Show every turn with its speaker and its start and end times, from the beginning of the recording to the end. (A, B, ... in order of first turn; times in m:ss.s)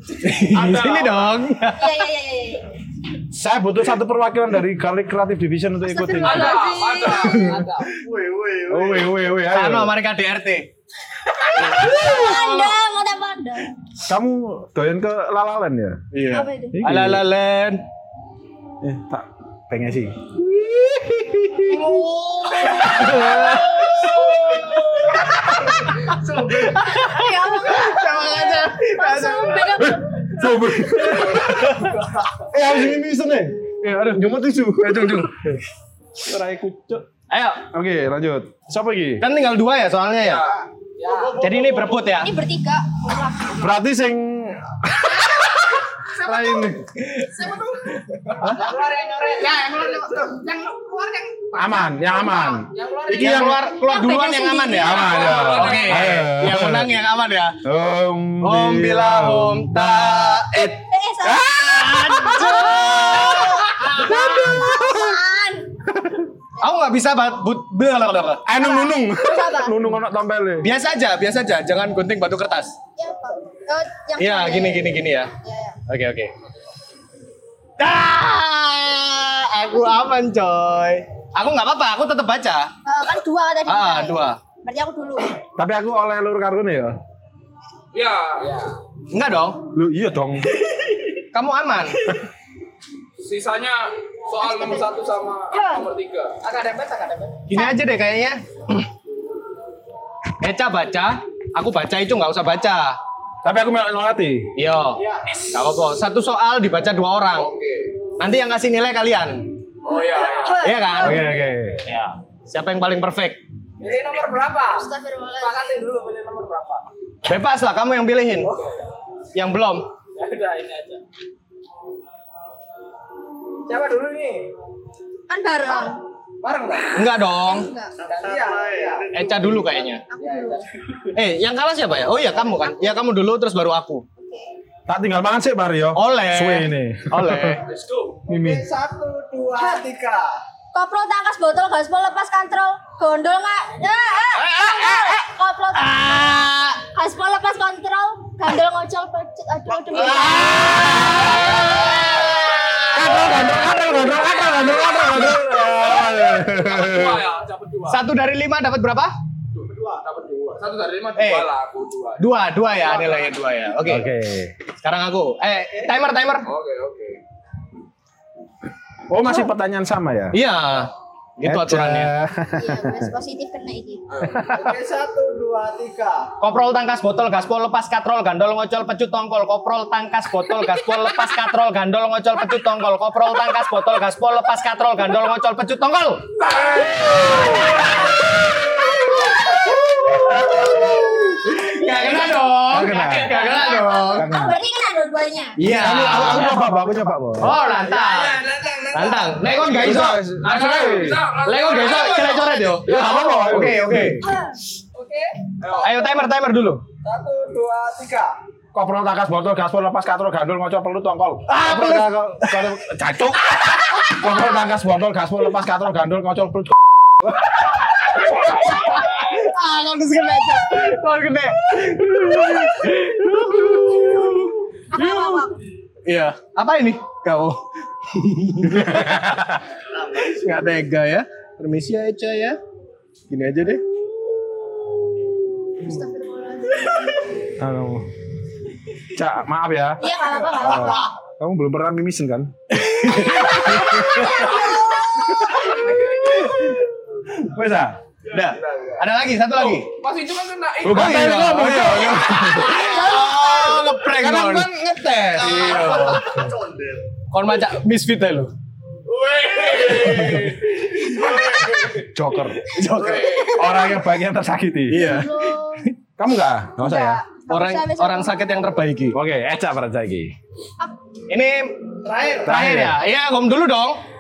0:00.2-0:02.0 A
0:00.5-0:01.4 B
0:01.8-0:02.7 C
0:03.3-0:06.6 D
0:05.8-0:07.5 C
0:06.2-0:07.9 B
0:07.5-0:09.1 E
0:08.7-0:09.9 D
0:09.5-0:10.7 A
0:11.6-0:13.7 C
0:11.6-0:12.7 A
0:14.1-0:16.0 D
0:16.1-0:17.8 A
0:16.3-0:16.7 C
0:16.7-0:17.2 D
0:18.8-0:21.9 D
0:21.7-0:22.4 E
0:21.8-0:22.5 C
0:22.6-0:23.9 A
0:22.7-0:25.3 D
0:26.1-0:26.7 E
0:26.3-0:29.9 A
0:26.9-0:30.6 C
0:29.8-0:31.9 D
0:31.2-0:32.0 A
0:32.4-0:35.6 D
0:33.8-0:34.2 A
0:34.8-0:35.4 A
0:36.2-0:37.1 D
0:37.3-0:37.6 A
0:37.7-0:39.2 D
0:39.2-0:40.5 A
0:40.2-0:42.0 B
0:41.0-0:41.4 E
0:41.4-0:42.3 A
0:42.2-0:43.6 C
0:43.5-0:47.0 D
0:48.4-0:53.5 E
0:51.6-0:53.6 D
0:53.1-0:57.6 A
0:53.7-0:55.3 C
0:54.7-0:57.0 D
0:54.9-0:56.3 B
0:57.6-1:05.2 D
0:58.4-1:00.8 A
1:00.9-1:05.7 C
1:01.7-1:04.1 A
1:05.9-1:06.3 D
1:06.6-1:08.5 A
1:08.4-1:10.7 D
1:08.6-1:09.8 C
1:10.6-1:12.8 A
1:13.0-1:15.8 C
1:14.2-1:15.3 A
1:15.9-1:16.3 A
1:17.8-1:22.7 A
1:22.8-1:25.4 C
1:23.7-1:24.4 A
1:25.6-1:27.0 D
1:27.9-1:28.7 B
1:29.1-1:29.6 A
1:29.7-1:30.6 D
1:31.2-1:32.1 A
1:33.2-1:36.4 B
1:34.4-1:34.8 C
1:35.5-1:35.8 C
1:36.4-1:37.4 E
1:37.5-1:38.9 A
1:40.4-1:43.0 A
1:43.4-1:44.5 D
1:44.6-1:47.5 A
1:45.0-1:45.2 E
1:47.3-1:47.9 B
1:48.2-1:49.5 A
1:49.8-1:50.7 B
1:50.2-1:50.4 E
1:50.4-1:51.2 C
1:50.5-1:51.3 A
1:51.0-1:51.8 D
1:51.9-1:53.4 A
1:53.8-1:54.9 E
1:54.7-1:55.5 C
1:55.4-1:56.9 E
1:57.3-1:58.6 A
1:59.3-1:59.9 A
2:00.2-2:01.0 E
2:03.7-2:04.5 E
2:05.3-2:06.0 C
2:06.4-2:06.9 E
2:06.5-2:06.8 B
2:06.9-2:07.7 A
2:07.4-2:07.9 C
2:08.0-2:09.1 E
2:09.1-2:10.0 A
2:10.1-2:10.6 C
2:10.2-2:10.6 E
2:11.1-2:14.0 A
2:14.2-2:14.5 C
2:14.9-2:17.6 D
2:16.0-2:17.6 A
2:17.6-2:18.2 B
2:18.3-2:18.6 D
2:18.3-2:20.4 E
2:19.6-2:19.8 C
2:20.7-2:26.1 C
2:24.4-2:25.2 A
2:25.7-2:26.8 A
2:26.8-2:31.9 C
2:29.9-2:33.5 A
2:32.9-2:37.3 D
2:35.6-2:38.0 B
2:37.9-2:39.1 A
2:39.6-2:43.3 B
2:41.2-2:41.5 A
2:42.2-2:44.1 A
2:43.8-2:44.6 D
2:44.8-2:46.5 A
2:46.5-2:47.2 B
2:49.1-2:50.4 D
2:50.3-2:52.1 A
2:51.5-2:53.1 D
2:52.5-2:54.0 C
2:54.1-2:54.4 B
2:54.2-2:54.8 D
2:54.5-2:56.3 E
2:56.4-3:06.2 A
3:06.5-3:07.4 B
3:10.1-3:10.7 D
3:10.1-3:14.3 A
3:12.7-3:13.4 D
3:13.1-3:15.6 C
3:14.1-3:14.6 D
3:15.6-3:16.6 A
3:15.6-3:17.6 D
3:17.4-3:20.2 A
3:17.4-3:19.6 E
3:18.0-3:23.2 B
3:19.6-3:21.2 D
3:21.4-3:24.3 A
3:22.8-3:24.3 D
3:24.2-3:24.6 C
3:24.9-3:25.9 E
3:25.6-3:26.1 B
3:25.8-3:26.8 A
3:27.0-3:28.4 E
3:28.7-3:37.3 D
3:31.5-3:32.7 A
3:38.0-3:45.5 A
3:44.9-3:45.6 C
3:46.0-3:49.5 A
3:48.7-3:49.6 D
3:50.0-3:52.6 A
3:53.3-3:53.8 A
3:55.8-3:57.2 C
3:57.6-3:58.1 D
3:59.1-4:02.5 D
4:00.0-4:01.1 C
4:02.7-4:04.7 A
4:03.5-4:04.3 D
4:04.4-4:04.8 B
4:05.8-4:06.8 A
4:05.8-4:06.2 B
4:07.4-4:08.0 D
4:08.3-4:09.9 A
4:08.4-4:11.8 B
4:10.8-4:12.8 D
4:10.9-4:14.7 A
4:12.7-4:13.9 C
4:14.1-4:16.2 D
4:15.4-4:16.4 A
4:15.5-4:16.3 B
4:17.3-4:18.5 A
4:19.1-4:21.9 B
4:22.0-4:22.7 D
4:22.6-4:23.7 A
4:23.0-4:23.5 B
4:23.5-4:25.1 D
4:24.9-4:25.9 A
4:25.0-4:25.8 C
4:26.2-4:27.2 D
4:26.8-4:28.4 C
4:27.5-4:29.2 A
4:29.1-4:30.3 D
4:31.3-4:34.0 A
4:32.1-4:32.4 E
4:32.4-4:33.0 D